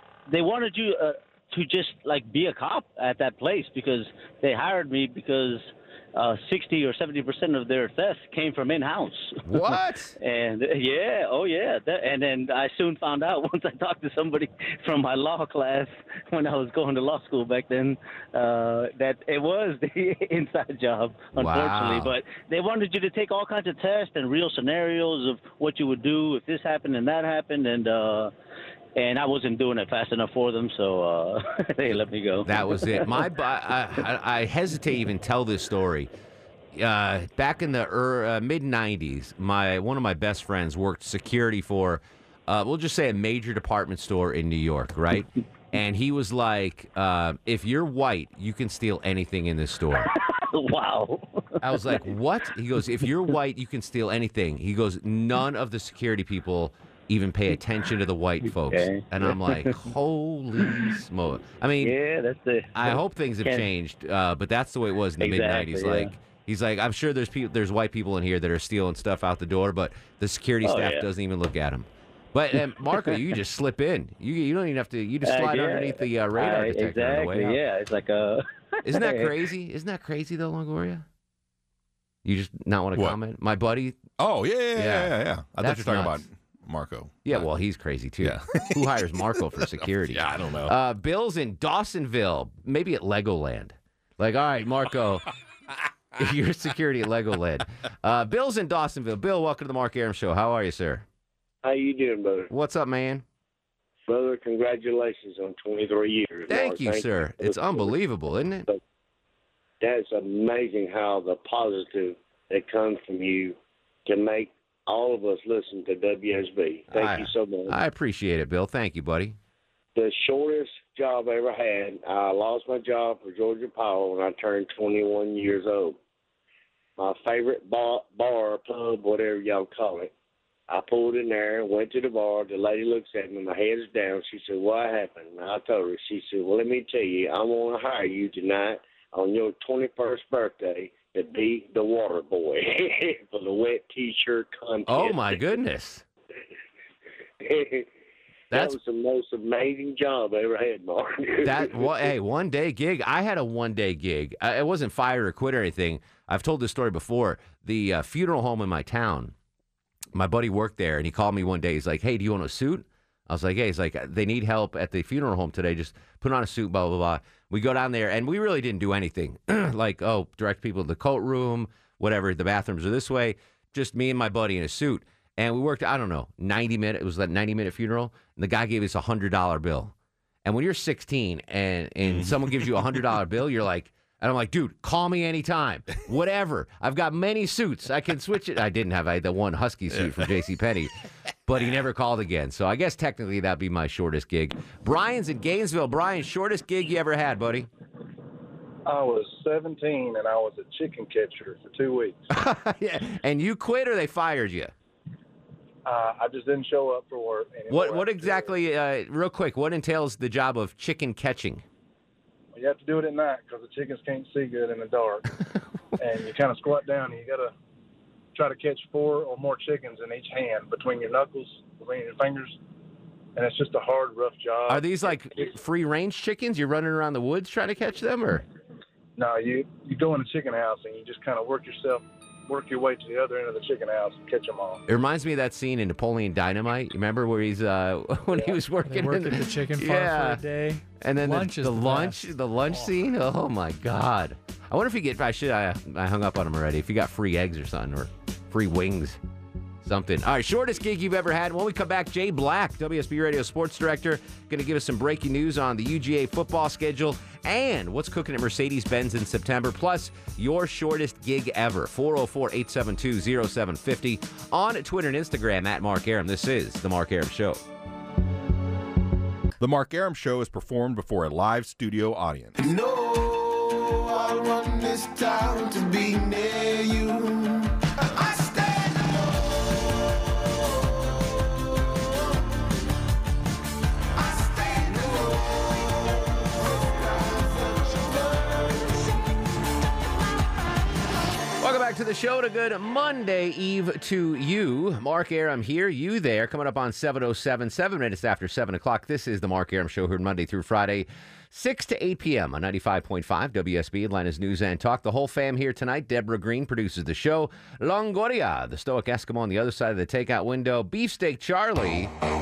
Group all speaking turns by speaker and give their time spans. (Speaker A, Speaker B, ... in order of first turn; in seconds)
Speaker A: 0.3-9.4, 10.2-28.3, 29.0-33.3, 50.0-52.0, 58.7-59.8, 61.8-63.7, 65.2-66.2, 70.6-71.1, 75.2-79.3
Speaker B: 9.4-10.2, 21.4-22.1, 32.5-36.1, 36.7-50.1, 51.6-61.9, 62.7-77.6, 78.8-81.0, 82.2-84.0, 84.8-86.2, 87.2-95.3, 96.2-101.0, 102.5-103.2, 106.5-108.7, 116.9-119.4, 144.9-146.0, 148.5-148.8, 151.4-159.3, 160.2-190.9, 191.5-197.7, 202.3-204.7, 207.7-211.6, 224.7-228.4, 234.9-240.4, 241.0-249.2, 249.8-267.6, 291.6-312.1
Speaker C: 84.2-87.4, 88.2-89.0, 90.1-90.7, 182.1-182.8, 189.9-190.3, 269.6-272.6
Speaker D: 101.6-102.5, 104.1-108.0, 109.8-117.7, 120.0-126.0, 127.0-130.1, 130.7-145.4, 147.4-147.9, 148.5-151.9
Speaker E: 198.9-202.2, 205.8-208.6, 212.5-215.3, 216.0-217.5, 218.3-222.6, 223.4-225.4, 229.2-234.8
Speaker F: 238.8-242.9